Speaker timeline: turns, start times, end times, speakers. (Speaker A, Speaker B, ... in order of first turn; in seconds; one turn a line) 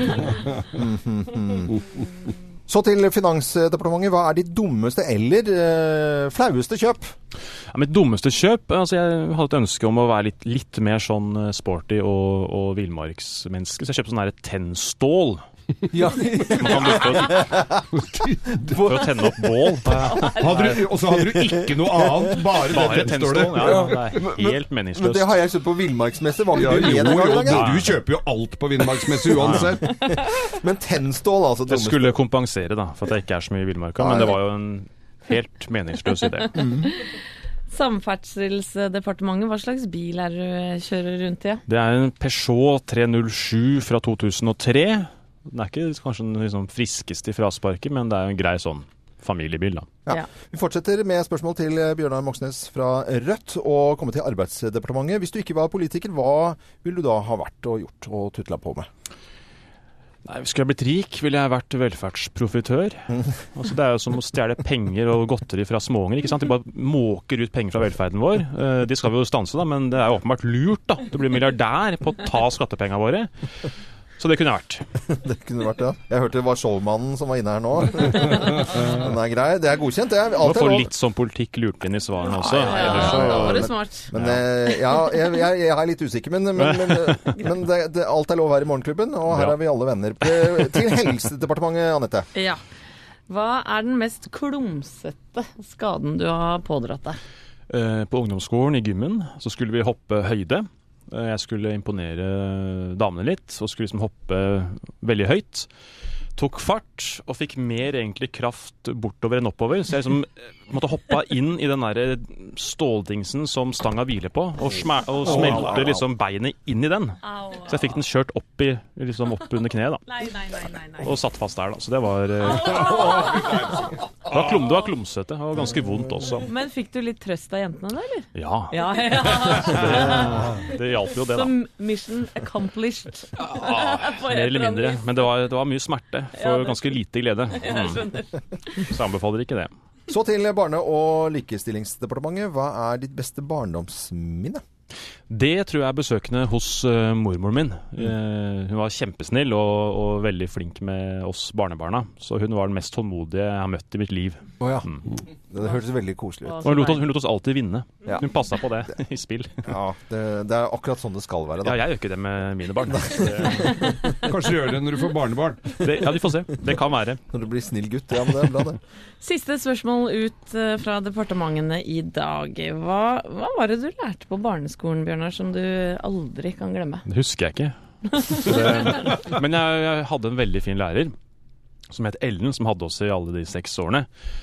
Speaker A: 0.7-1.8
Speaker A: 2.7-7.1
Speaker B: 7.7-15.4
Speaker A: 15.9-19.5
Speaker B: 16.5-17.6
Speaker C: 17.9-18.6
Speaker B: 18.8-20.7
Speaker D: 20.0-20.8
Speaker C: 20.4-24.2
Speaker A: 21.1-22.4
Speaker B: 22.7-25.4
Speaker A: 23.6-27.7
Speaker C: 26.5-29.9
Speaker B: 26.7-27.9
Speaker B: 29.4-29.7
Speaker A: 29.4-32.2
Speaker B: 31.7-36.6
Speaker A: 34.0-34.4
Speaker A: 36.6-36.9
Speaker D: 37.7-41.6
Speaker B: 41.7-49.9
Speaker A: 50.1-58.9
Speaker B: 60.2-73.3
Speaker B: 74.2-74.8
Speaker A: 75.1-80.9
Speaker B: 80.4-84.4
Speaker D: 82.2-84.1
Speaker A: 82.6-92.3
Speaker D: 92.3-92.6
Speaker D: 93.3-97.2
Speaker B: 97.7-105.7
Speaker B: 106.4-120.0
Speaker C: 115.3-115.9
Speaker A: 115.3-115.7
Speaker D: 117.2-118.0
Speaker D: 120.1-121.2
Speaker B: 121.0-123.1
Speaker D: 122.5-123.9
Speaker C: 122.5-124.6
Speaker B: 124.2-126.5
Speaker D: 126.4-130.5
Speaker B: 128.3-131.5
Speaker D: 131.3-135.1
Speaker B: 133.4-138.0
Speaker D: 136.3-136.9
Speaker D: 137.5-138.8
Speaker B: 138.8-139.7
Speaker A: 140.1-144.6
Speaker B: 145.3-155.0
Speaker A: 154.6-154.9
Speaker A: 155.5-156.6
Speaker D: 156.4-157.1
Speaker B: 156.6-159.7
Speaker A: 159.7-161.8
Speaker B: 161.6-163.9
Speaker A: 162.9-164.1
Speaker C: 164.3-165.8
Speaker B: 165.8-167.2
Speaker A: 167.3-168.8
Speaker D: 169.2-177.0
Speaker B: 177.1-177.8
Speaker D: 178.1-179.1
Speaker B: 178.3-181.1
Speaker B: 181.9-184.1